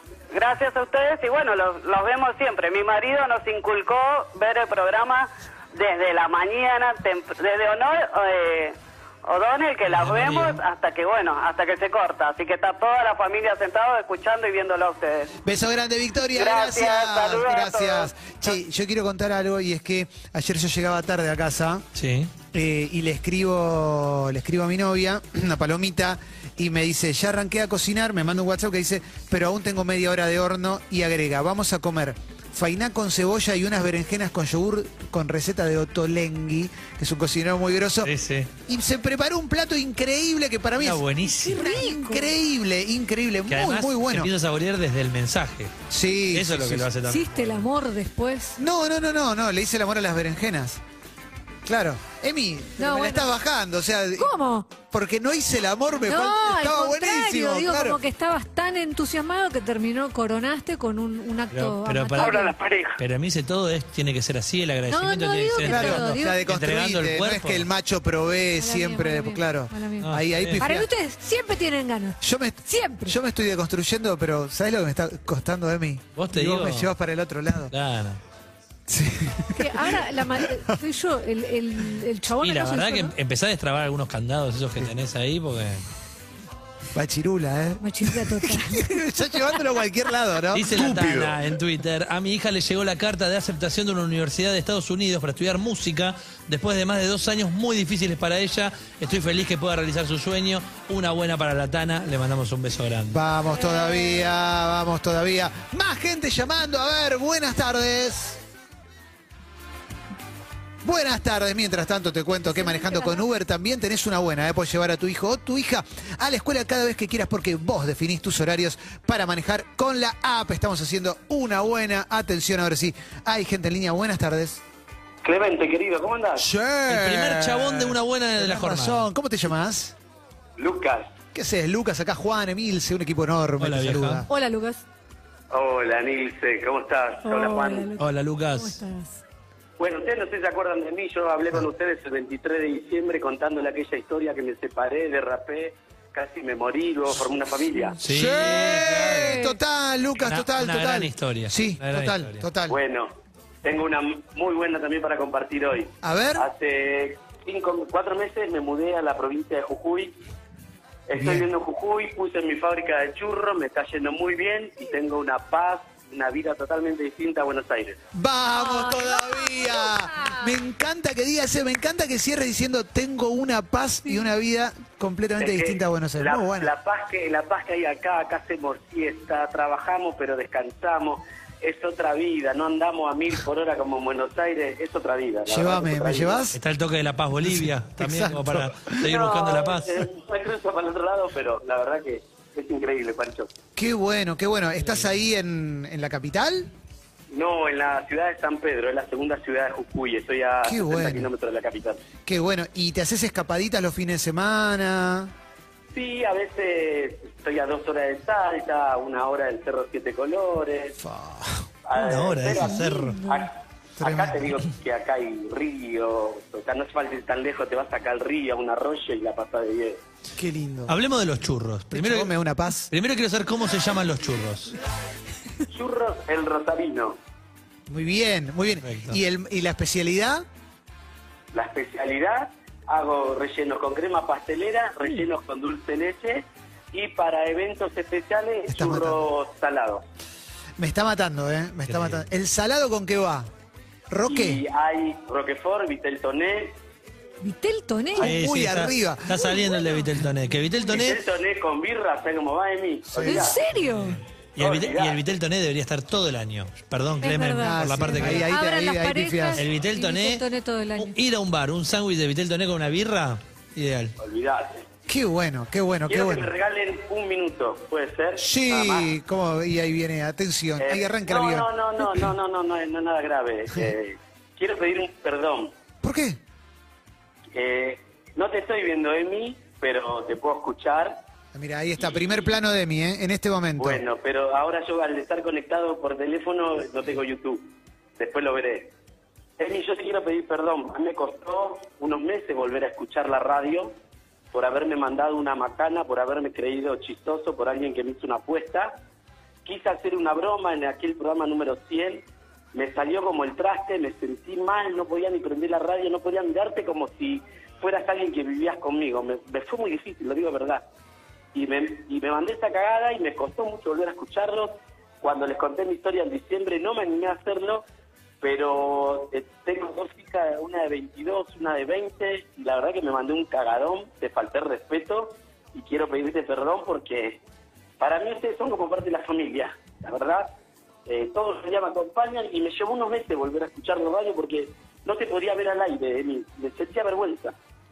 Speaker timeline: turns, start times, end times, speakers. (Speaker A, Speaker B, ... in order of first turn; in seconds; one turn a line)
Speaker A: 0.3-15.3
Speaker B: 9.9-10.6
Speaker C: 15.4-21.9
Speaker A: 16.3-18.2
Speaker B: 21.9-22.3
Speaker C: 22.5-38.1
Speaker B: 38.0-38.5
Speaker C: 38.7-44.3
Speaker B: 40.8-41.6
Speaker D: 41.5-42.3
Speaker B: 43.5-45.7
Speaker C: 45.9-46.9
Speaker B: 46.3-47.7
Speaker D: 47.1-48.6
Speaker C: 48.6-50.8
Speaker C: 51.6-54.3
Speaker D: 52.8-53.3
Speaker D: 54.2-54.7
Speaker C: 54.9-58.0
Speaker D: 56.0-62.6
Speaker B: 61.5-67.7
Speaker D: 64.9-66.4
Speaker C: 65.6-70.9
Speaker D: 68.6-73.2
Speaker B: 70.0-70.6
Speaker C: 72.2-77.7
Speaker B: 76.2-76.9
Speaker B: 77.7-78.2
Speaker C: 78.9-80.8
Speaker D: 79.6-83.1
Speaker B: 82.4-85.8
Speaker C: 86.9-91.4
Speaker D: 87.8-89.0
Speaker B: 90.5-103.2
Speaker C: 103.1-108.4
Speaker D: 103.6-104.2
Speaker C: 110.8-124.6
Speaker D: 112.5-113.2
Speaker E: 125.2-126.5
Speaker C: 126.4-129.9
Speaker B: 126.9-129.1
Speaker E: 130.6-131.1
Speaker C: 131.3-134.3
Speaker B: 133.6-134.2
Speaker D: 134.3-134.8
Speaker E: 135.5-137.9
Speaker D: 137.2-139.2
Speaker B: 138.0-138.8
Speaker E: 139.8-148.0
Speaker B: 148.0-149.4
Speaker C: 148.0-152.8
Speaker D: 149.0-149.6
Speaker B: 150.2-152.4
Speaker E: 152.7-153.1
Speaker E: 153.6-160.2
Speaker C: 156.0-156.5
Speaker E: 161.1-168.0
Speaker C: 161.2-161.5
Speaker C: 168.1-176.7
Speaker D: 168.5-170.5
Speaker E: 175.4-186.4
Speaker C: 185.5-186.6
Speaker B: 186.5-190.0
Speaker C: 187.4-189.1
Speaker E: 189.1-193.5
Speaker C: 193.8-196.7
Speaker E: 197.3-202.0
Speaker C: 200.6-201.3
Speaker C: 202.2-205.3
Speaker E: 205.9-211.0
Speaker C: 211.0-211.7
Speaker E: 211.9-220.0
Speaker B: 211.9-213.2
Speaker D: 212.6-213.5
Speaker C: 214.0-214.6
Speaker C: 220.4-220.9
Speaker B: 220.9-222.3
Speaker C: 221.9-222.9
Speaker B: 222.9-224.8
Speaker E: 225.7-227.2
Speaker C: 227.9-230.4
Speaker B: 228.8-229.2
Speaker E: 231.5-240.0
Speaker C: 238.7-239.3
Speaker C: 240.8-243.5
Speaker B: 241.9-242.2
Speaker C: 244.1-244.6
Speaker E: 244.3-246.8
Speaker D: 247.4-248.3
Speaker C: 248.2-249.5
Speaker B: 248.2-251.2
Speaker D: 249.7-250.0
Speaker E: 250.9-253.6
Speaker C: 253.1-253.5
Speaker D: 253.2-254.2
Speaker B: 253.8-258.5
Speaker E: 254.6-255.3
Speaker D: 257.2-261.1
Speaker C: 257.6-259.7
Speaker B: 259.6-260.4
Speaker B: 261.0-264.1
Speaker E: 264.2-264.9
Speaker C: 265.1-266.5
Speaker E: 266.1-269.1
Speaker C: 268.4-272.3
Speaker E: 270.8-275.7
Speaker C: 276.0-276.4
Speaker E: 277.5-281.2
Speaker C: 281.5-284.0
Speaker E: 282.0-282.5
Speaker E: 283.8-288.9
Speaker E: 289.6-293.9
Speaker E: 294.5-299.0
Speaker E: 299.6-310.8
Speaker E: 311.5-317.8
Speaker E: 318.4-327.4
Speaker E: 328.0-330.5
Speaker E: 331.1-337.5